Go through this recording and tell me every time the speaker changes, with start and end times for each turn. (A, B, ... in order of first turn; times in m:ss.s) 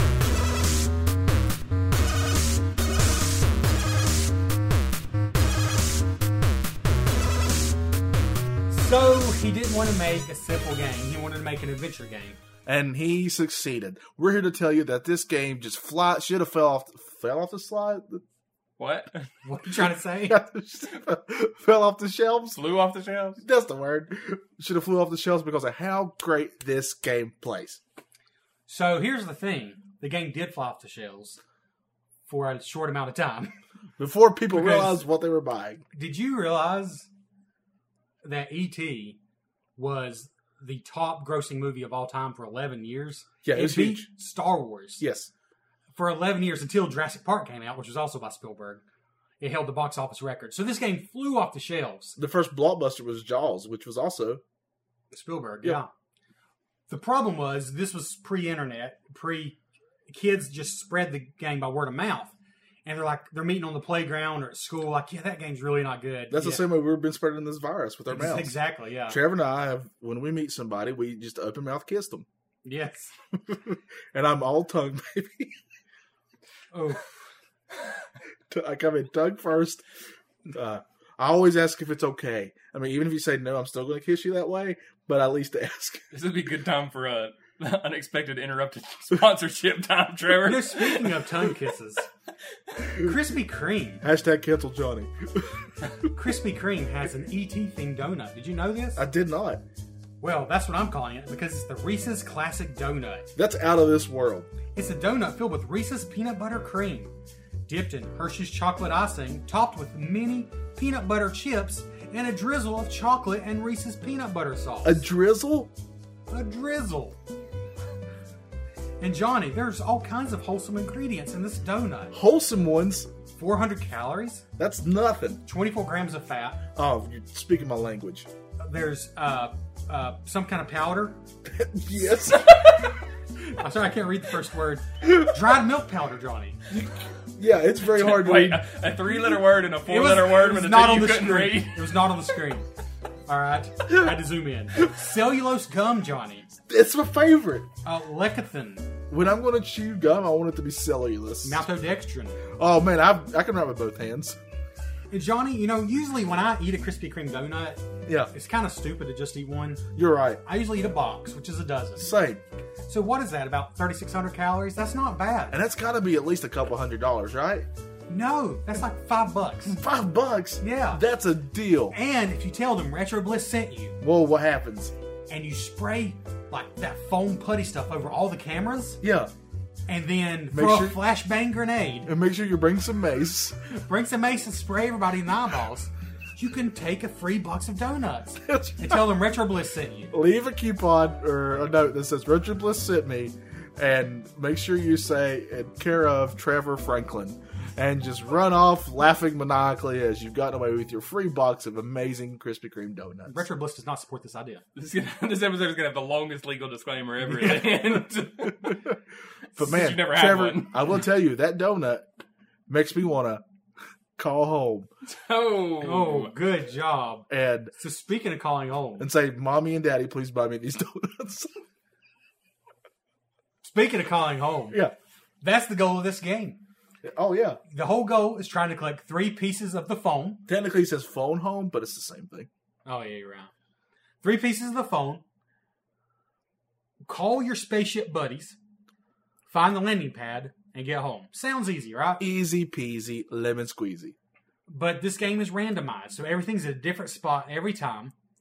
0:08.7-0:12.4 A
0:12.6-0:18.2 B
0:18.8-0:19.3 C
0:19.4-0:20.4 A
0:20.2-0:22.6 B
0:22.5-0:23.4 C
0:23.4-0:27.8 B
0:28.7-0:31.4 A
0:32.3-0:33.5 A
0:34.0-0:35.8 B
0:34.5-0:35.0 A
0:35.9-0:37.1 A
0:38.2-0:39.2 A
0:39.8-0:45.0 A
0:43.4-0:44.1 B
0:45.0-0:45.3 B
0:45.9-0:48.8 A
0:49.4-0:52.2 A
0:52.2-0:54.4 B
0:55.1-0:55.9 A
0:56.9-1:02.3 A
1:02.8-1:06.6 A
1:06.3-1:08.6 B
1:08.1-1:09.2 A
1:09.1-1:12.2 B
1:12.6-1:13.1 A
1:13.5-1:15.6 B
1:16.7-1:17.1 A
1:18.5-1:19.8 B
1:20.4-1:26.0 B
1:26.1-1:31.3 C
1:30.4-1:32.1 A
1:32.9-1:34.0 A
1:34.0-1:35.7 B
1:36.1-1:39.0 A
1:39.0-1:39.6 B
1:40.2-1:43.3 A
1:43.4-1:44.5 B
1:44.7-1:47.1 A
1:47.7-1:55.0 A
1:54.8-1:55.7 B
1:56.3-1:57.2 A
1:59.0-2:02.2 A
2:02.1-2:03.1 B
2:03.3-2:04.4 A
2:04.6-2:05.4 B
2:05.4-2:06.6 A
2:06.8-2:08.3 B
2:08.6-2:11.2 A
2:11.4-2:12.5 B
2:13.4-2:16.6 A
2:16.7-2:18.6 B
2:17.9-2:21.9 C
2:19.8-2:22.6 A
2:23.3-2:26.5 A
2:26.7-2:27.7 B
2:27.8-2:28.9 A
2:29.1-2:31.6 B
2:31.4-2:32.4 A
2:32.5-2:34.4 B
2:35.1-2:39.8 A
2:38.0-2:38.3 B
2:39.9-2:40.4 B
2:40.4-2:42.1 A
2:42.0-2:42.4 B
2:42.8-2:45.6 A
2:45.5-2:47.7 B
2:48.1-2:49.8 A
2:49.6-2:51.9 B
2:50.6-2:51.0 A
2:51.9-2:54.0 A
2:54.0-2:54.9 B
2:55.3-2:59.0 A
2:59.0-2:59.3 B
2:59.9-3:02.1 A
3:00.5-3:01.0 B
3:02.0-3:03.6 B
3:03.7-3:10.1 A
3:08.4-3:09.0 B
3:10.1-3:23.4 B
3:23.3-3:24.6 A
3:24.8-3:28.9 C
3:27.4-3:29.0 B
3:29.6-3:32.0 B
3:29.6-3:30.9 C
3:32.7-3:33.4 B
3:34.2-3:34.9 B
3:35.0-3:36.3 C
3:35.8-3:39.1 A
3:37.3-3:37.7 B
3:39.0-3:41.6 B
3:43.6-3:44.8 A
3:45.4-3:46.6 A
3:47.0-3:47.6 B
3:47.7-3:50.4 A
3:50.5-3:52.5 B
3:52.8-3:53.5 A
3:54.2-3:55.2 A
3:57.1-3:58.6 A
3:59.5-4:02.2 A
4:02.2-4:04.2 B
4:04.7-4:08.1 A